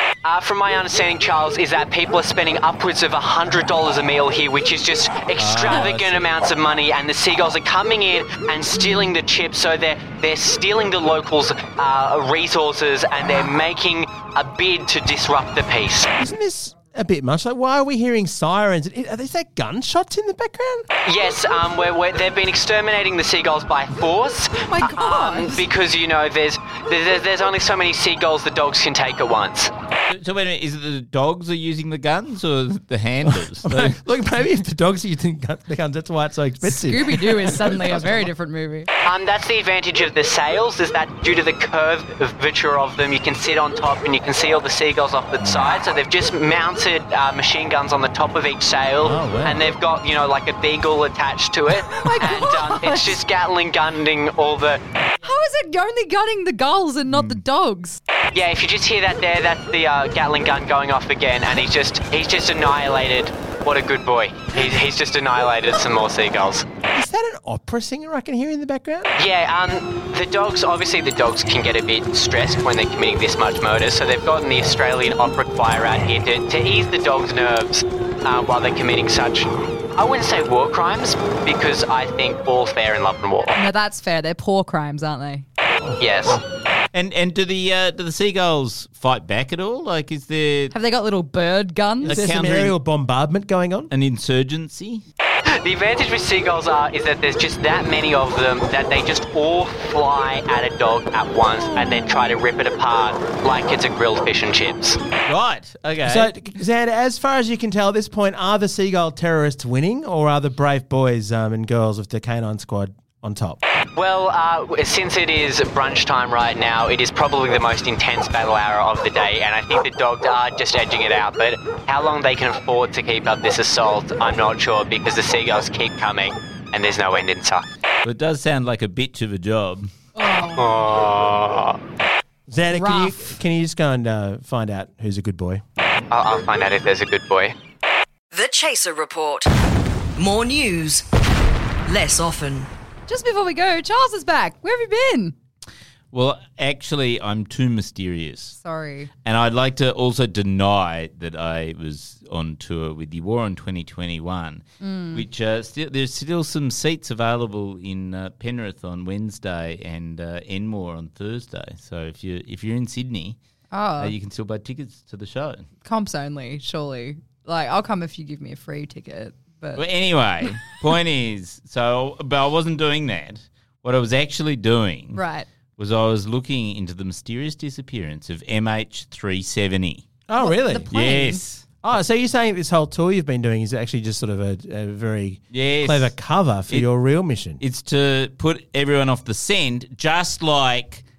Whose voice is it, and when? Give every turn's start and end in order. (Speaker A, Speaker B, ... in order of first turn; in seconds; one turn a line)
Speaker A: 0.2-16.1
Speaker B: 5.4-6.3
Speaker C: 8.7-9.1
Speaker D: 16.2-20.9
Speaker A: 21.1-29.7
Speaker C: 24.6-25.7
Speaker B: 30.1-34.0
Speaker D: 33.3-38.3
Speaker C: 36.9-38.9
Speaker A: 39.0-54.8
Speaker D: 49.0-49.6
Speaker C: 51.9-53.2
Speaker C: 55.2-58.0
Speaker A: 58.3-66.6
Speaker D: 66.9-69.1
Speaker A: 69.2-83.6
Speaker C: 83.5-85.4
Speaker A: 86.0-86.4
Speaker B: 86.9-90.7
Speaker C: 90.7-92.2
Speaker B: 92.0-92.7
Speaker D: 92.1-93.9
Speaker B: 93.9-95.0
Speaker A: 95.6-105.0
Speaker B: 105.2-106.3
Speaker D: 106.0-113.6
Speaker A: 114.0-127.7
Speaker B: 128.0-129.9
Speaker C: 130.2-130.7
Speaker A: 130.6-131.8
Speaker D: 132.5-135.6
Speaker C: 132.7-133.2
Speaker A: 136.1-137.5
Speaker E: 138.3-139.5
Speaker E: 140.1-141.1
Speaker E: 141.8-142.7
Speaker C: 143.1-145.3
Speaker B: 146.1-148.6
Speaker C: 148.6-149.1
Speaker B: 149.2-163.4
Speaker C: 154.8-155.2
Speaker C: 163.7-164.1
Speaker B: 164.0-165.7
Speaker C: 165.8-169.8
Speaker B: 169.7-175.2
Speaker C: 175.1-175.5
Speaker B: 175.8-180.0
Speaker D: 180.3-181.0
Speaker C: 180.4-181.4
Speaker B: 180.9-181.6
Speaker D: 181.8-187.6
Speaker B: 185.5-186.1
Speaker B: 187.6-191.0